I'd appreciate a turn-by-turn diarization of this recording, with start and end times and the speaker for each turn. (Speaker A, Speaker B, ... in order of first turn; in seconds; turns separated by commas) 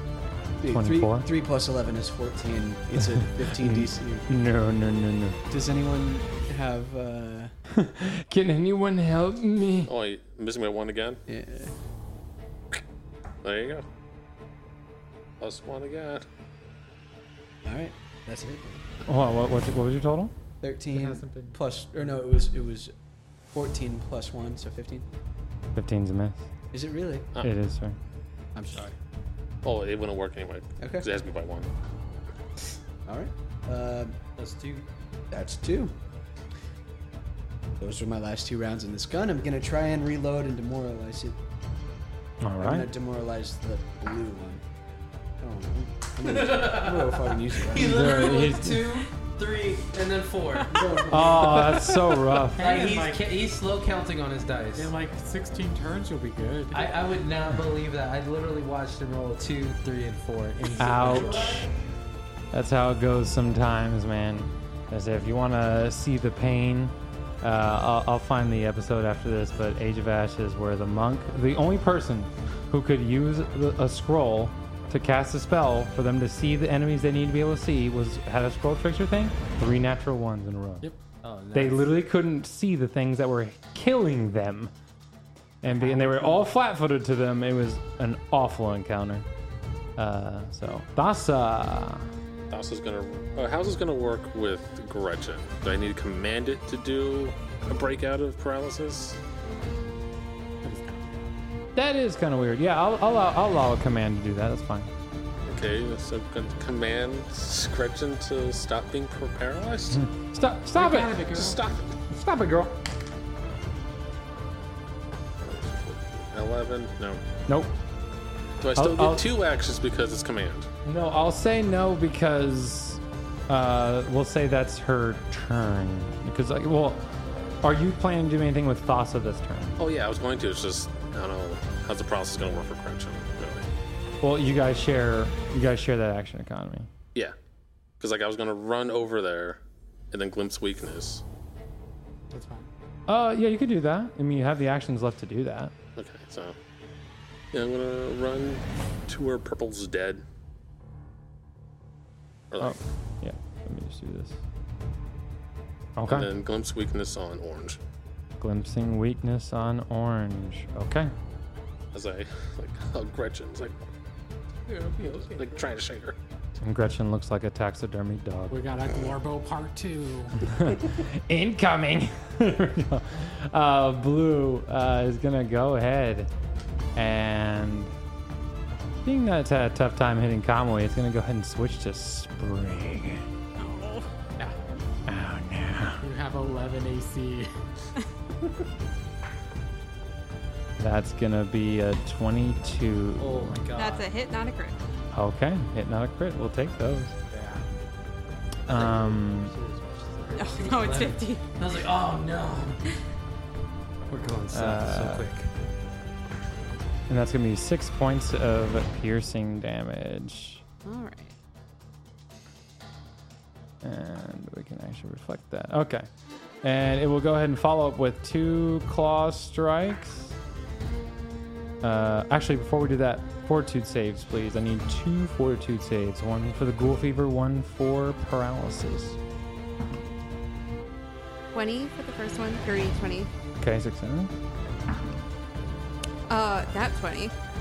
Speaker A: 0.6-4.3, Speaker B: 0.7-1.3, Speaker B: 3.0-5.4, Speaker A: 5.5-7.5, Speaker B: 7.7-9.9, Speaker C: 9.9-11.2, Speaker A: 11.3-11.7, Speaker C: 13.4-13.8, Speaker C: 15.4-16.3, Speaker A: 17.6-18.9, Speaker B: 19.1-20.3, Speaker A: 20.6-22.9, Speaker D: 20.9-21.6, Speaker A: 23.5-25.1, Speaker B: 25.8-26.5, Speaker A: 26.7-27.3, Speaker B: 27.4-28.0, Speaker A: 28.6-28.9, Speaker C: 29.6-31.7, Speaker A: 30.8-31.1, Speaker A: 33.1-34.2, Speaker E: 34.4-34.9, Speaker A: 35.3-35.9, Speaker A: 37.8-41.4, Speaker B: 42.4-42.9, Speaker A: 42.6-44.6, Speaker A: 45.4-48.1, Speaker E: 46.2-51.8, Speaker B: 47.8-49.0, Speaker A: 50.7-51.4, Speaker B: 51.1-52.8, Speaker D: 51.1-53.2, Speaker E: 52.6-54.9, Speaker D: 54.8-57.0, Speaker E: 56.7-61.6, Speaker B: 60.8-61.7, Speaker A: 61.0-61.8, Speaker B: 62.5-80.9, Speaker E: 81.2-81.9, Speaker B: 81.5-84.7, Speaker B: 85.6-89.3, Speaker E: 85.7-86.3, Speaker B: 90.0-92.1, Speaker C: 92.5-99.2, Speaker D: 100.6-101.4, Speaker B: 101.8-104.9, Speaker C: 105.5-110.0, Speaker B: 109.9-111.3, Speaker D: 110.7-111.6, Speaker C: 111.3-112.0, Speaker B: 112.1-112.8, Speaker C: 115.4-117.2, Speaker B: 117.5-117.8, Speaker C: 118.6-120.7, Speaker B: 118.8-119.3, Speaker B: 120.8-127.1, Speaker B: 127.6-129.7, Speaker C: 129.8-133.7, Speaker B: 134.2-136.9, Speaker C: 138.0-139.6, Speaker C: 140.1-141.2, Speaker D: 142.3-142.7, Speaker B: 143.1-145.8, Speaker C: 146.0-146.6, Speaker C: 147.5-150.2, Speaker C: 152.5-152.8, Speaker B: 152.6-154.4, Speaker B: 156.0-156.3, Speaker C: 156.1-157.8, Speaker B: 158.4-161.1, Speaker C: 161.9-163.8, Speaker E: 164.7-165.6, Speaker C: 165.3-166.2, Speaker B: 166.6-168.6, Speaker D: 168.5-170.5, Speaker B: 170.4-176.3, Speaker B: 177.0-177.9, Speaker B: 179.0-183.3, Speaker F: 183.6-184.1, Speaker B: 185.1-186.0, Speaker D: 186.0-187.5, Speaker B: 190.8-193.6, Speaker E: 193.2-194.1, Speaker F: 193.8-194.8, Speaker B: 195.1-197.2, Speaker E: 197.3-197.6, Speaker E: 198.7-202.8, Speaker B: 198.7-199.5, Speaker F: 200.3-201.4, Speaker E: 204.1-205.5, Speaker B: 204.5-205.3, Speaker B: 207.1-210.6, Speaker F: 210.8-211.3, Speaker B: 213.8-216.1, Speaker B: 216.6-220.4, Speaker B: 221.8-229.2, Speaker F: 231.5-233.3, Speaker B: 233.6-234.4, Speaker F: 236.3-237.3